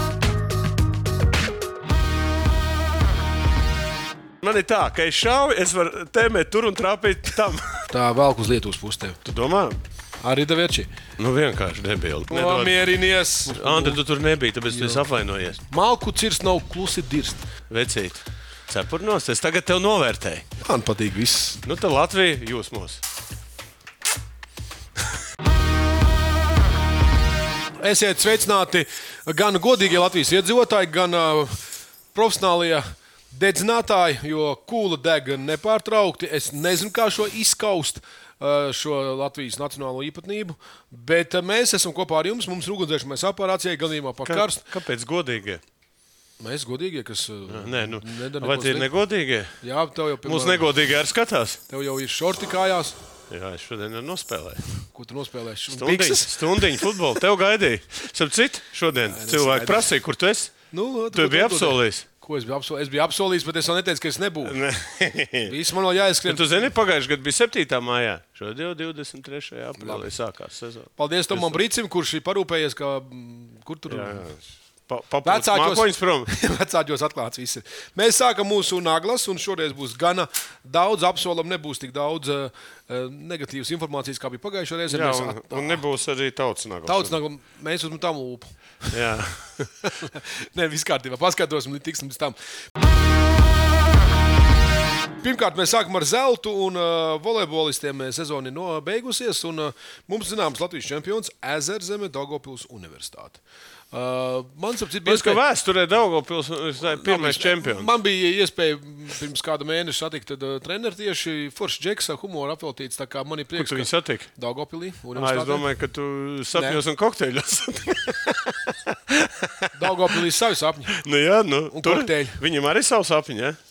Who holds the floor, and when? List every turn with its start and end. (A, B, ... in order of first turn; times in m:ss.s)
0:04.4-0:07.9 A
0:07.9-0:09.2 B
0:09.2-0:09.8 A
0:10.2-0:10.9 B
0:11.2-0:12.9 A
0:12.3-0:14.0 B
0:13.5-0:15.6 A
0:14.7-0:15.0 B
0:15.7-0:17.5 B
0:17.7-0:20.5 A
0:20.6-0:21.6 B
0:21.6-0:23.0 A
0:27.8-0:44.6 B
0:44.3-0:45.6 A
0:46.4-0:48.9 B
0:47.5-0:49.6 A
0:49.6-0:50.7 B
0:50.2-0:51.6 A
0:51.7-0:53.0 B
0:53.3-0:54.8 A
0:54.9-0:57.0 B
0:55.7-1:02.0 A
0:59.1-0:59.9 B
1:00.7-1:04.6 B
1:04.4-1:05.5 A
1:05.4-1:06.6 B
1:06.2-1:11.6 A
1:09.8-1:10.1 B
1:11.0-1:14.3 B
1:13.9-1:16.3 A
1:15.2-1:25.8 B
1:24.9-1:27.2 A
1:26.8-1:28.9 B
1:28.9-1:29.9 A
1:30.0-1:32.4 B
1:35.2-1:43.4 B
1:43.9-1:45.4 B
1:45.0-1:47.9 A
1:46.9-1:55.6 B
1:53.6-1:54.3 A
1:55.2-1:59.9 A
1:56.5-1:56.8 B
1:59.7-2:01.0 B
2:00.9-2:03.6 A
2:01.7-2:02.4 B